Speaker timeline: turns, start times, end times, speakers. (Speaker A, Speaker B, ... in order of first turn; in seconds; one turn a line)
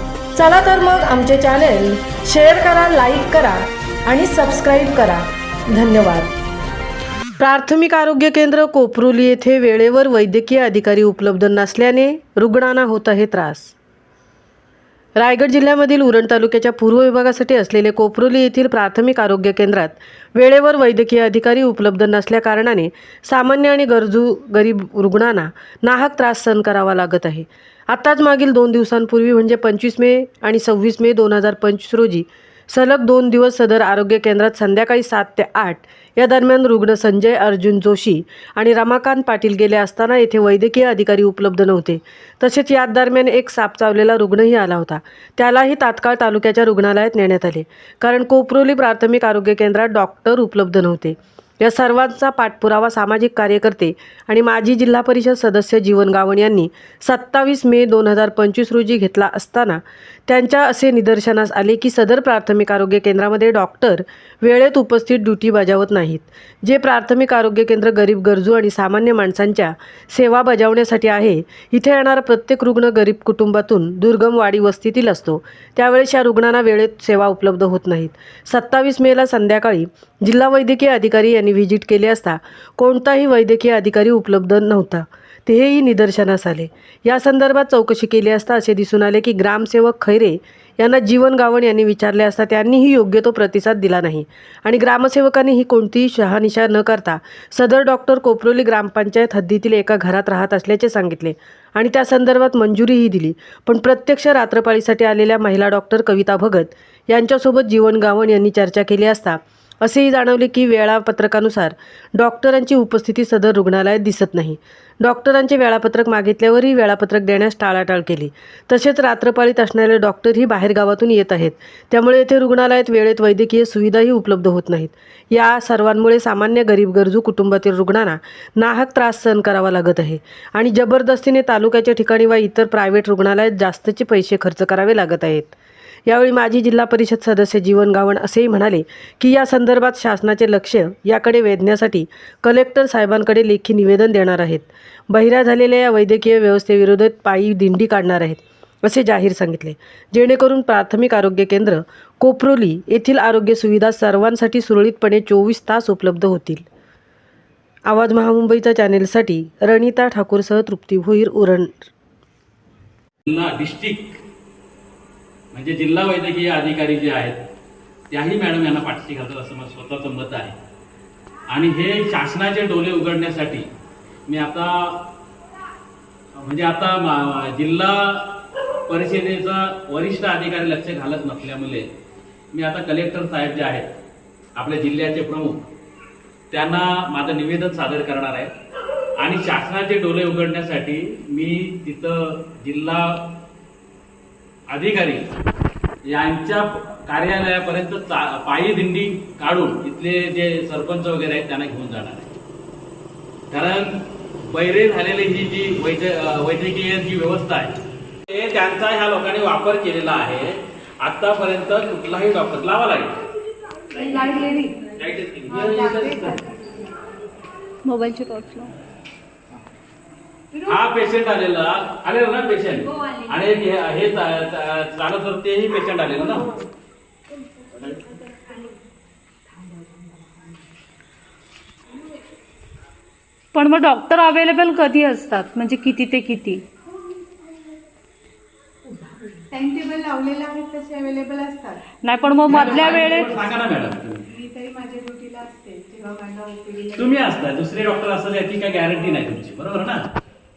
Speaker A: 0.4-6.3
Speaker A: 7.4-13.8
Speaker A: 15.2-135.5
Speaker A: 136.1-156.6
Speaker A: 157.9-161.9
Speaker B: 163.2-164.2
Speaker B: 165.5-167.4
Speaker B: 168.1-170.5
Speaker B: 171.5-173.7
Speaker B: 174.3-175.1
Speaker B: 176.3-181.9
Speaker B: 182.5-183.9
Speaker B: 184.6-185.6
Speaker B: 186.5-188.5
Speaker B: 189.2-193.4
Speaker B: 194.7-195.3
Speaker B: 196.1-202.3
Speaker B: 203.5-207.8
Speaker B: 208.3-213.2
Speaker C: 213.9-214.9
Speaker B: 214.9-216.4
Speaker C: 215.5-217.1
Speaker D: 217.8-218.7
Speaker B: 220.7-226.5
Speaker D: 233.5-236.6
Speaker C: 239.5-243.4
Speaker D: 242.0-243.3
Speaker B: 242.5-244.2
Speaker C: 244.3-247.3
Speaker B: 246.9-250.1